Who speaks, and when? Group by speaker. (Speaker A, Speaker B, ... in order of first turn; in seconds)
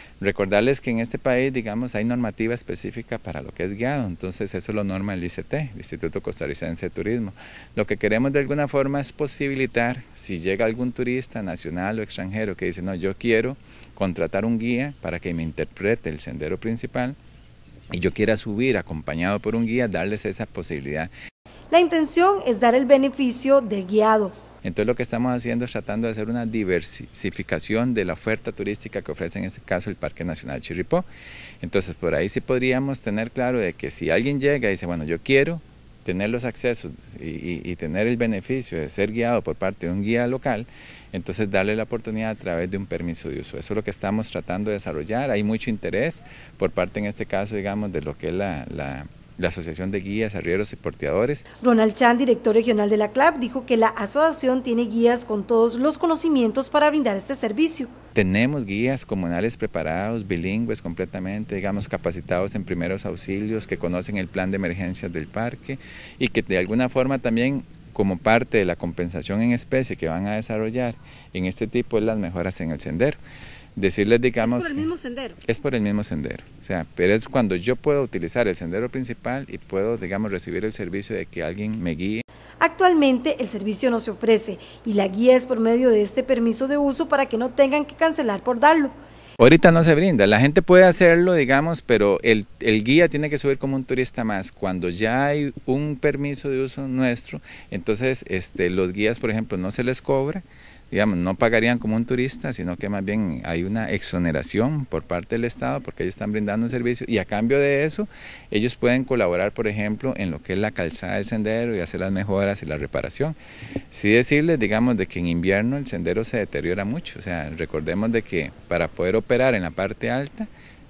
Speaker A: 0.2-17.2, 17.9-21.1, 24.6-31.1, 31.6-51.4, 58.1-73.2, 73.8-74.9, 75.4-82.2, 89.4-113.3, 113.9-120.5
Speaker B: 21.7-24.4, 51.6-57.9, 74.4-75.4, 82.6-88.9